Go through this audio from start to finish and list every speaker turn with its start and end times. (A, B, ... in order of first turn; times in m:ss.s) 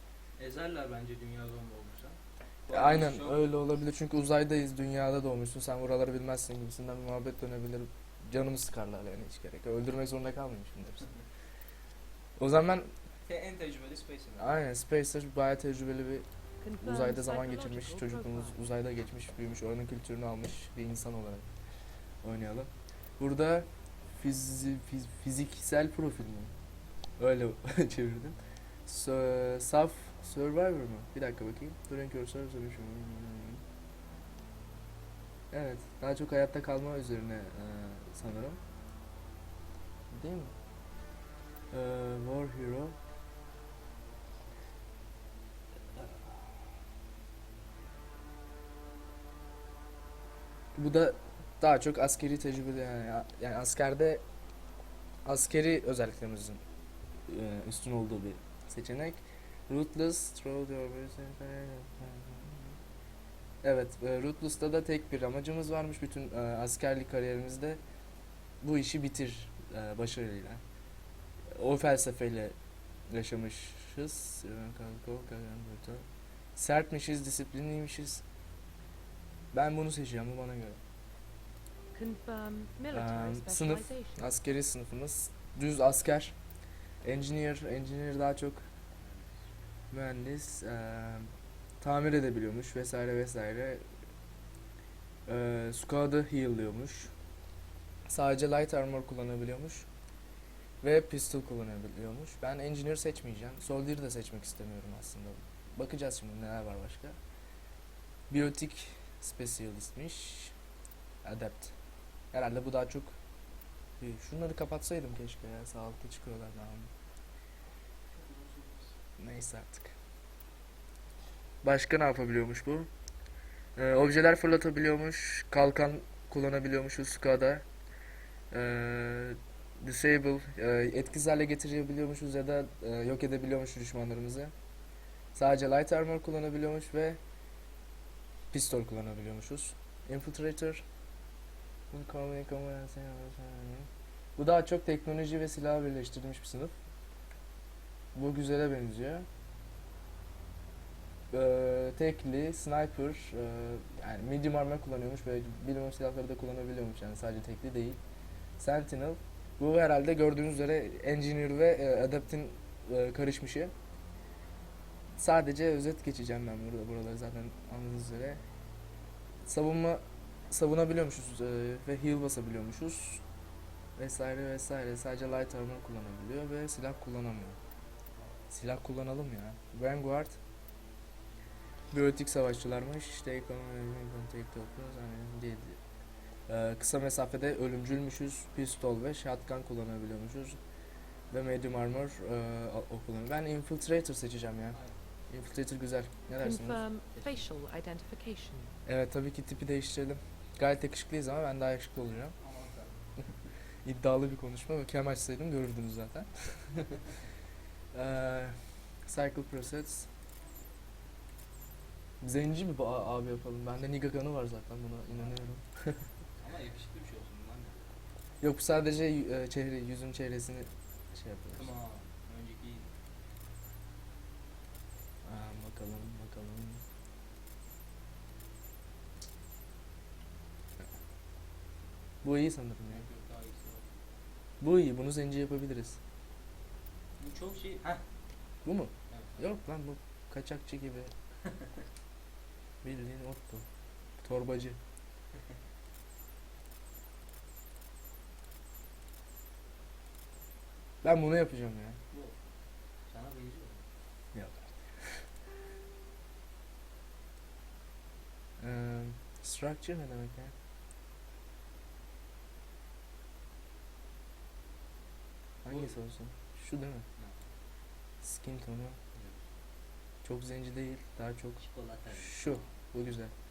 0:00.4-0:03.5 A
0:02.7-0:11.1 B
0:12.4-0:12.9 B
0:13.2-0:14.6 A
0:14.4-0:16.3 B
0:16.6-0:18.6 C
0:16.8-0:21.4 B
0:22.2-0:26.5 B
0:27.2-0:33.6 B
0:35.5-0:38.6 B
0:40.1-0:40.5 B
0:41.7-0:43.0 B
0:46.0-0:46.5 B
0:50.7-0:54.2 B
0:55.2-0:56.6 B
0:57.3-1:02.8 B
1:03.6-1:07.8 B
1:08.6-1:10.6 B
1:11.5-1:12.6 B
1:13.1-1:18.2 B
1:19.5-1:20.8 B
1:21.9-1:24.3 C
1:22.9-1:26.4 B
1:27.0-1:28.6 B
1:29.0-1:29.4 A
1:29.9-1:33.9 B
1:35.3-1:37.1 B
1:38.1-1:39.9 B
1:40.8-1:47.2 B
1:48.3-1:50.5 B
1:51.2-1:51.7 B
1:52.3-1:53.2 B
1:54.0-1:56.9 B
1:58.1-1:59.0 A
1:59.2-1:59.9 B
2:01.6-2:02.9 B
2:03.8-2:07.6 B
2:08.5-2:14.5 B
2:15.3-2:17.2 B
2:18.5-2:20.8 B
2:21.9-2:26.7 B
2:28.1-2:29.3 B
2:31.3-2:38.0 B
2:38.6-2:43.7 B
2:45.2-2:48.4 B
2:49.4-2:53.2 B
2:54.0-2:57.6 B
2:58.5-3:00.4 B
3:01.9-3:05.8 B
3:06.5-3:10.6 B
3:11.3-3:14.8 B
3:14.7-3:15.0 A
3:15.3-3:16.8 B
3:16.4-3:18.7 C
3:17.1-3:17.4 A
3:18.8-3:22.4 B
3:22.4-3:22.9 A
3:23.8-3:26.9 B
3:27.9-3:30.1 B
3:32.2-3:35.9 B
3:35.1-3:35.4 A
3:36.4-3:37.9 A
3:38.4-3:41.7 B
3:41.5-3:42.9 A
3:45.2-3:46.8 B
3:52.2-3:53.0 B
3:52.9-3:53.9 A
3:54.6-3:56.0 B
3:57.2-3:58.0 A
3:58.6-4:01.1 B
3:59.1-3:59.4 A
4:02.8-4:03.6 B
4:04.2-4:04.8 B
4:11.0-4:12.0 B
4:12.1-4:12.4 A
4:13.1-4:13.8 A
4:14.3-4:15.2 B
4:18.6-4:20.5 B
4:25.6-4:27.0 B
4:25.7-4:25.9 A
4:27.2-4:27.4 A
4:28.2-4:29.0 B
4:29.1-4:29.4 A
4:30.2-4:33.3 B
4:31.6-4:32.7 A